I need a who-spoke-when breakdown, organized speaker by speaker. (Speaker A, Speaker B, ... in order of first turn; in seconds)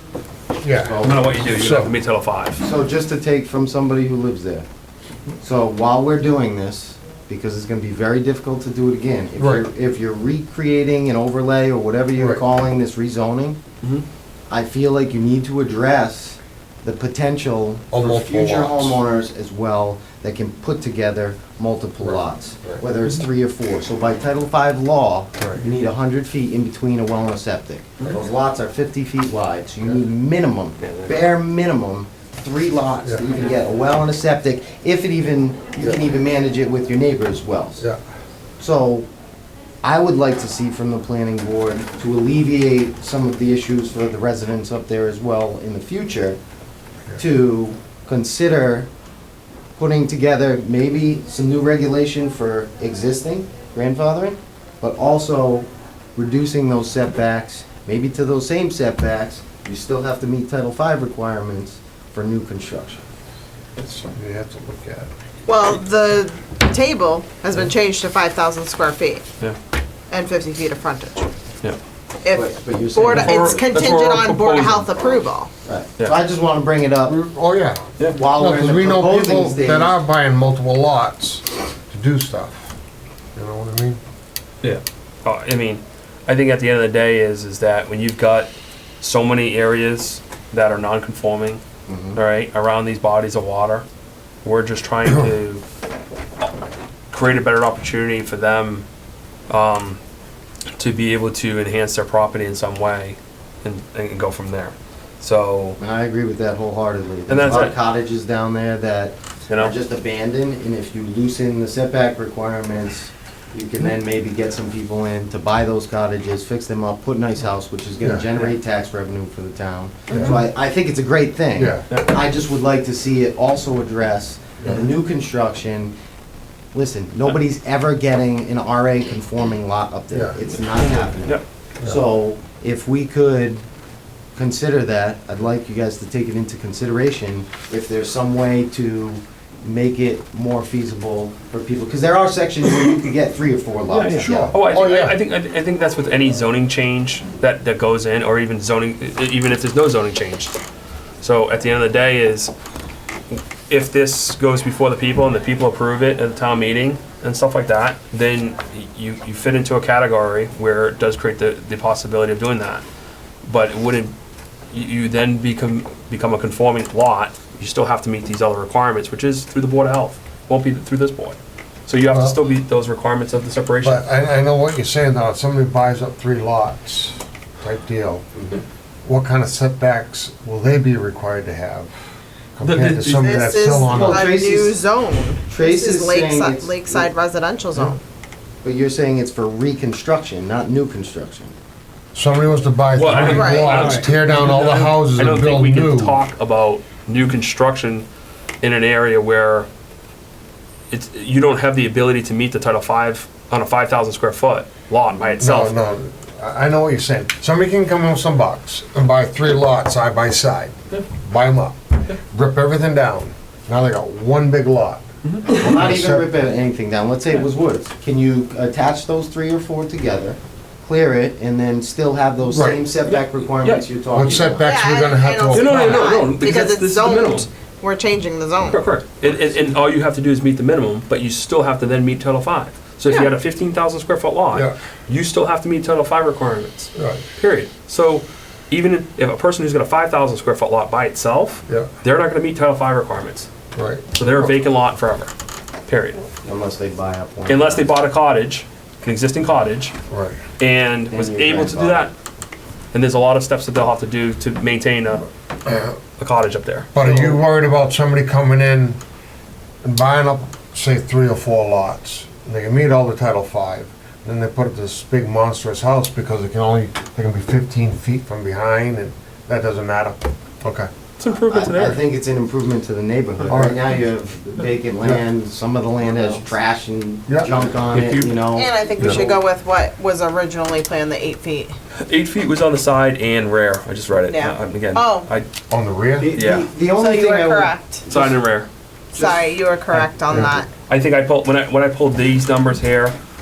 Speaker A: 0.6-1.9, 9.4-9.7, 17.9-19.0, 22.0-22.8, 63.8-65.1, 77.1-82.8, 83.3-84.0, 118.0-118.2, 120.1-120.4, 121.6-121.8, 130.1-130.4, 144.2-145.2, 172.1-172.4, 173.8-178.2, 179.0-181.9, 182.6-184.2, 192.1-196.2, 205.4-216.3, 222.5-222.9, 224.1-226.3, 236.9-237.2, 243.7-244.5, 250.1-250.4, 255.6-256.0, 256.9-259.0, 259.8-270.9, 273.5-273.8, 277.3-277.5, 285.7-286.3, 290.3-290.6
Speaker B: 0.8-1.4, 2.6-4.7, 5.4-13.6, 14.5-37.8, 38.6-39.1, 39.8-46.4, 47.2-48.9, 49.8-63.0, 72.3-73.7, 75.6-77.2, 78.1-80.0, 91.9-92.2, 105.8-125.9, 126.7-133.6, 134.3-144.5, 183.9-184.8, 185.5-187.1, 188.6-191.5, 215.5-224.6, 246.4-247.8, 251.1-252.1, 257.0-257.3, 271.5-279.4, 286.2-288.4, 289.1-289.5
Speaker C: 1.0-2.6, 30.8-31.2, 73.1-74.9, 84.6-91.6, 92.2-93.8, 94.4-95.6, 97.1-98.8, 99.5-100.0, 100.8-105.8, 107.3-107.7, 109.5-109.7, 120.1-120.4, 130.8-131.4, 143.9-150.6, 151.2-152.5, 153.3-162.8, 163.4-164.1, 164.7-174.1, 182.6-183.5, 192.9-198.1, 198.6-199.7, 200.9-205.7, 215.2-215.6, 223.1-223.8, 225.5-227.5, 228.6-243.5, 244.1-245.3, 245.9-246.2, 247.4-249.9, 250.6-252.1, 252.9-255.2, 256.2-257.4, 271.2-272.0, 277.9-278.4, 282.0-285.5, 286.3-286.7, 288.1-288.7, 290.9-293.1
Speaker D: 65.5-69.2, 70.1-71.3, 72.2-75.5, 183.0-188.0, 193.3-194.0, 224.6-228.8, 278.5-281.7, 284.3-285.3, 286.9-288.0, 289.1-290.7